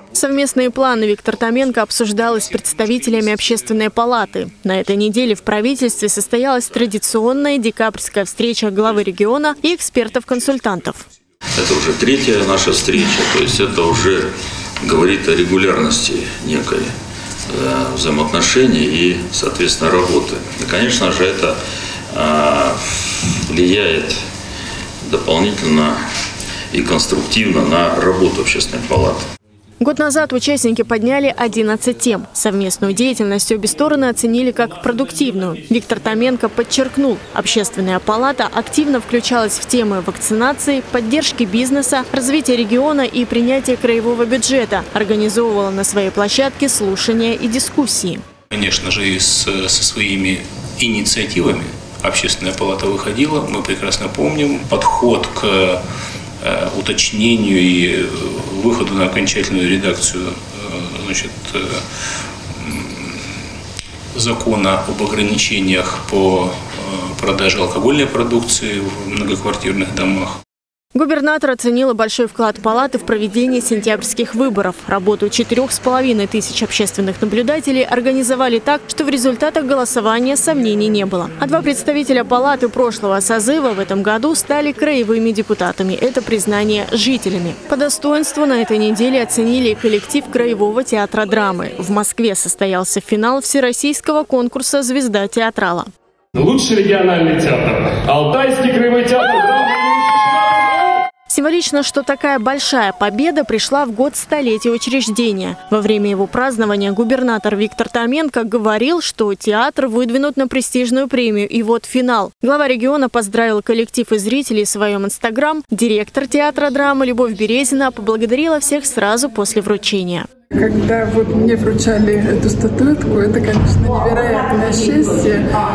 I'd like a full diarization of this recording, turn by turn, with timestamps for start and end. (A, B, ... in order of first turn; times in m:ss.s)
0:00.1-0:11.0 A
0:03.1-0:03.5 B
0:11.6-0:14.3 C
0:14.8-0:16.9 C
0:17.5-0:21.6 C
0:22.1-0:24.2 C
0:25.0-0:26.0 C
0:26.7-0:29.2 C
0:29.8-0:48.2 A
0:48.5-0:55.8 B
0:56.4-1:01.8 B
1:02.6-1:03.3 B
1:04.2-1:10.4 B
1:11.0-1:35.9 A
1:36.4-1:40.4 D
1:41.3-2:00.3 A
2:00.6-2:05.4 E